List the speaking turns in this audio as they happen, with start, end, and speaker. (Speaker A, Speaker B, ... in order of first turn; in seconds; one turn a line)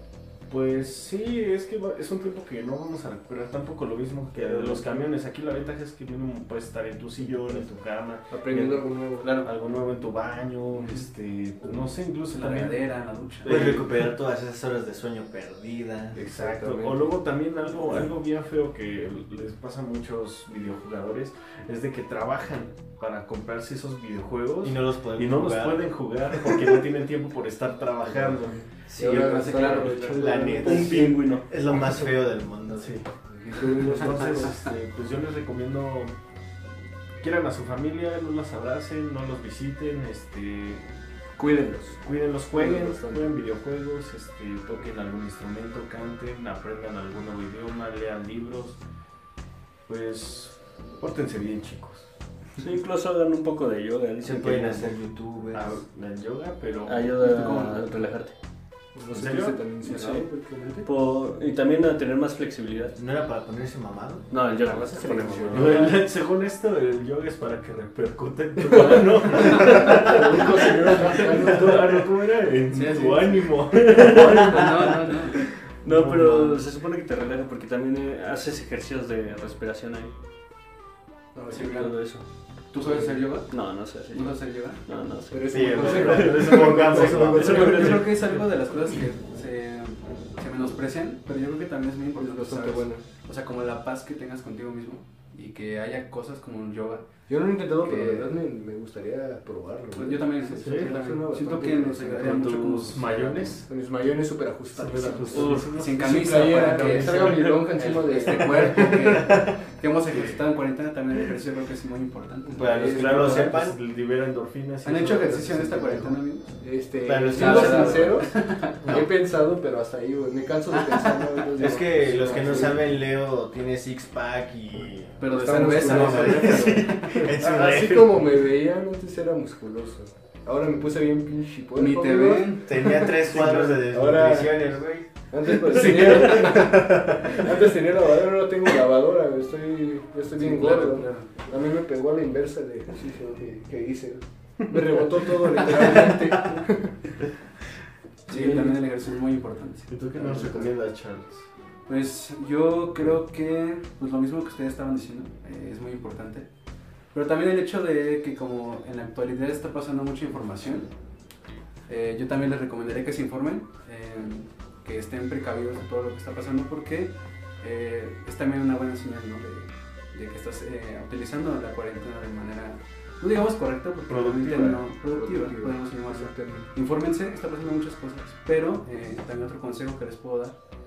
Speaker A: 0.5-12.8
Speaker B: 4.4-5.0
Speaker C: 7.4-7.7
Speaker C: 8.3-9.3
Speaker D: 9.2-9.5
Speaker D: 12.3-13.6
Speaker A: 13.4-14.0
Speaker E: 13.4-16.2
Speaker C: 16.1-17.1
Speaker A: 16.2-30.2
Speaker E: 24.6-25.9
Speaker C: 28.0-31.3
Speaker E: 28.9-33.0
Speaker D: 29.1-30.1
Speaker B: 30.6-31.4
Speaker A: 32.8-33.0
Speaker C: 33.3-34.6
Speaker A: 33.8-36.1
Speaker A: 37.2-40.8
Speaker C: 41.4-43.4
Speaker A: 42.0-48.8
Speaker A: 49.9-52.1
Speaker B: 52.6-54.9
Speaker E: 54.2-55.8
Speaker A: 55.5-57.2
Speaker B: 56.9-58.3
Speaker D: 57.2-57.8
Speaker C: 58.9-60.9
Speaker A: 59.1-59.6
Speaker B: 59.8-60.3
Speaker B: 60.8-62.9
Speaker E: 62.9-64.3
Speaker B: 64.3-65.9
Speaker C: 64.5-65.9
Speaker A: 65.5-76.6
Speaker C: 68.7-72.0
Speaker D: 72.7-73.4
Speaker B: 73.9-74.9
Speaker D: 74.1-75.4
Speaker B: 75.8-80.1
Speaker C: 81.3-81.8
Speaker D: 81.5-82.0
Speaker B: 81.5-82.2
Speaker D: 82.7-84.8
Speaker C: 82.9-83.1
Speaker B: 83.5-88.4
Speaker C: 85.3-88.1
Speaker E: 85.5-87.8
Speaker A: 86.1-87.6
Speaker D: 87.5-97.1
Speaker C: 92.2-93.0
Speaker C: 97.3-102.5
Speaker D: 97.8-98.3
Speaker D: 99.9-103.6
Speaker A: 100.6-101.0
Speaker A: 102.0-103.7
Speaker C: 103.7-109.2
Speaker A: 104.7-107.3
Speaker B: 105.3-105.8
Speaker D: 105.7-113.0
Speaker B: 107.2-107.6
Speaker C: 112.5-113.5
Speaker A: 112.6-116.2
Speaker E: 112.6-113.8
Speaker D: 114.8-116.6
Speaker C: 116.6-122.8
Speaker E: 117.0-118.3
Speaker D: 117.3-118.7
Speaker E: 118.8-119.1
Speaker D: 120.7-121.5
Speaker E: 121.6-128.1
Speaker D: 125.2-127.2
Speaker C: 125.3-134.8
Speaker D: 131.8-133.1
Speaker E: 132.6-137.4
Speaker C: 135.3-146.9
Speaker D: 140.4-141.3
Speaker D: 148.3-150.4
Speaker C: 148.3-148.7
Speaker A: 149.9-151.4
Speaker C: 150.2-150.7
Speaker D: 151.9-156.5
Speaker D: 157.1-160.9
Speaker D: 161.9-180.6
Speaker A: 174.1-174.8
Speaker C: 175.1-176.7